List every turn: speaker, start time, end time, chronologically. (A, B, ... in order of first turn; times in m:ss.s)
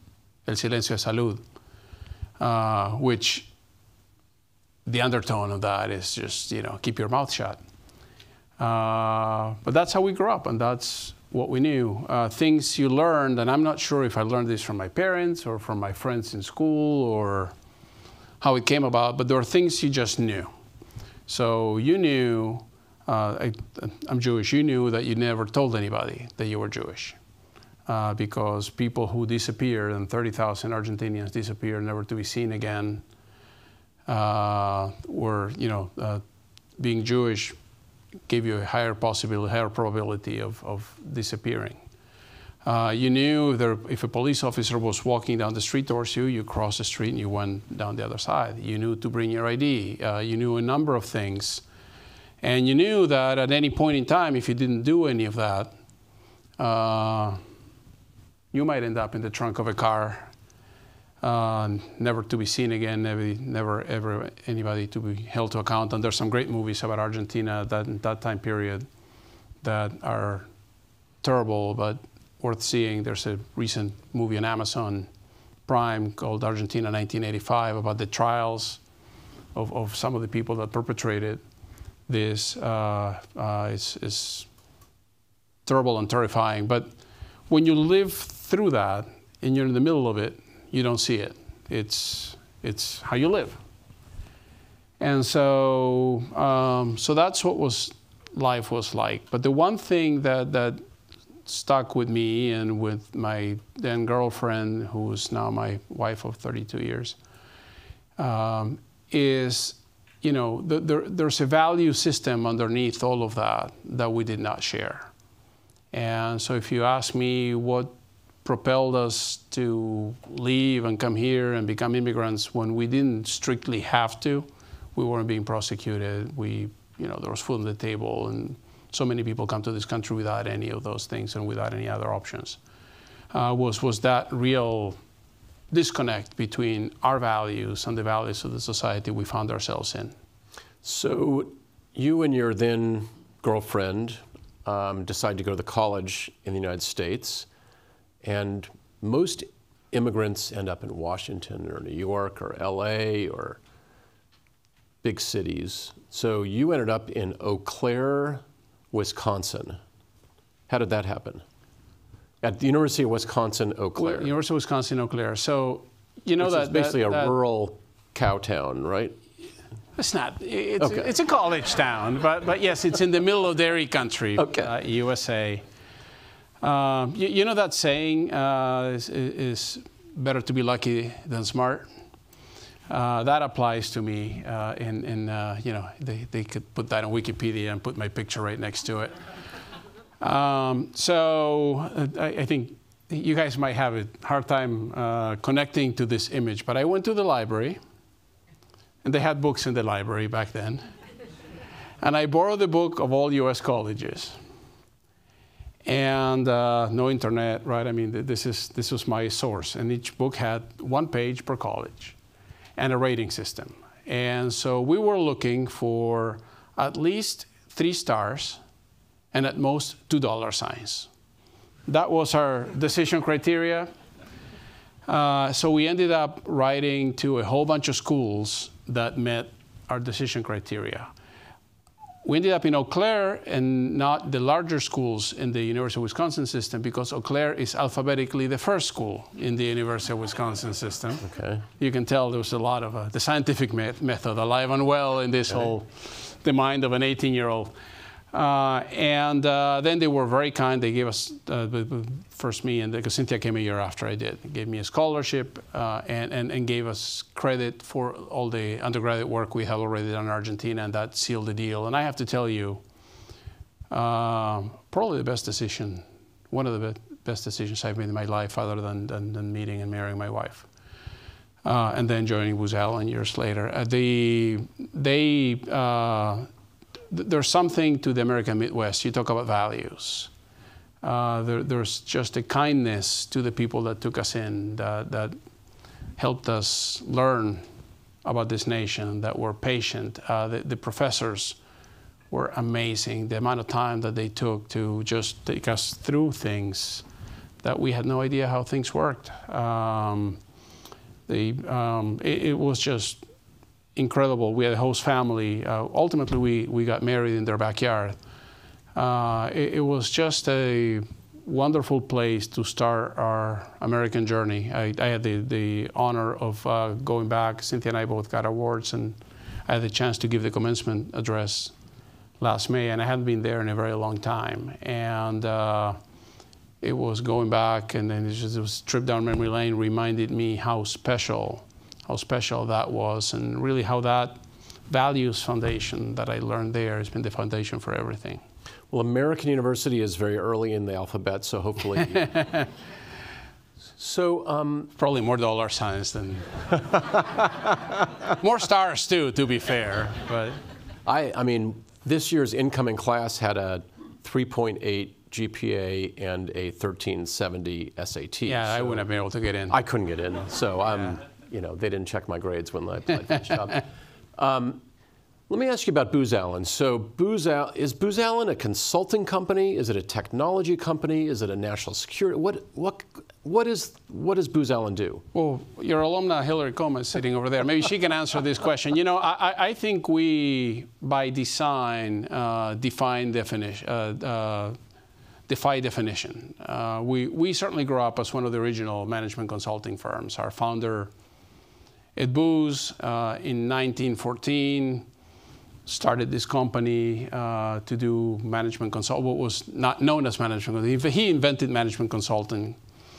0:00.4-0:01.4 A
0:02.4-0:03.5 A
0:04.8-0:07.6 A
0:08.6-0:17.5 A
0:18.4-0:20.5 A
0:21.3-0:27.2 A
0:27.9-0:33.0 A
0:34.1-0:36.2 A
0:36.8-0:37.5 A
0:38.3-0:41.8 A
0:42.6-0:51.6 A
0:52.4-0:55.7 A
0:56.6-0:57.4 A
0:58.5-1:00.3 A
1:01.2-1:08.8 A
1:09.6-1:10.5 A
1:11.2-1:15.1 A
1:15.7-1:18.8 A
1:19.5-1:21.4 A
1:22.1-1:24.5 A
1:25.6-1:26.9 A
1:27.5-1:33.6 A
1:35.0-1:40.8 A
1:41.4-1:47.2 A
1:48.2-1:55.1 A
1:55.9-1:57.9 A
1:58.4-2:12.6 A
2:13.3-2:15.0 A
2:15.7-2:20.1 A
2:20.8-2:27.5 B
2:28.2-2:33.6 B
2:35.0-2:39.8 B
2:40.7-2:41.4 B
2:42.4-2:44.3 B
2:44.0-2:47.3 A
2:46.4-2:49.2 B
2:50.0-2:55.6 A
2:50.8-2:51.1 B
2:54.4-2:54.7 B
2:56.6-3:01.9 A
3:02.9-3:09.2 A
3:10.2-3:17.8 A
3:19.0-3:20.8 A
3:22.0-3:24.4 A
3:25.8-3:32.2 A
3:32.8-3:38.6 A
3:39.3-3:41.1 A
3:41.9-3:43.9 A
3:45.0-3:51.1 A
3:52.2-4:07.7 A
4:01.2-4:01.6 B
4:08.3-4:22.8 A
4:23.9-4:30.7 A
4:31.6-4:36.5 A
4:37.1-4:40.3 A
4:41.0-4:45.4 A
4:46.2-4:47.6 A
4:48.2-4:51.6 A
4:52.3-4:57.0 A
4:57.6-5:00.4 A
5:01.3-5:03.2 A
5:04.0-5:08.2 A
5:08.9-5:21.7 A
5:22.4-5:26.0 A
5:26.8-5:38.4 A
5:38.9-5:42.3 B
5:42.1-5:42.7 A
5:44.0-5:44.9 B
5:45.0-5:47.6 A
5:48.2-5:50.6 A
5:51.0-5:59.0 B
5:58.4-5:59.8 A
5:59.7-6:04.8 B
6:05.5-6:15.2 B
6:15.3-6:24.8 A
6:25.5-6:31.1 A
6:32.2-6:35.1 A
6:35.8-6:42.8 A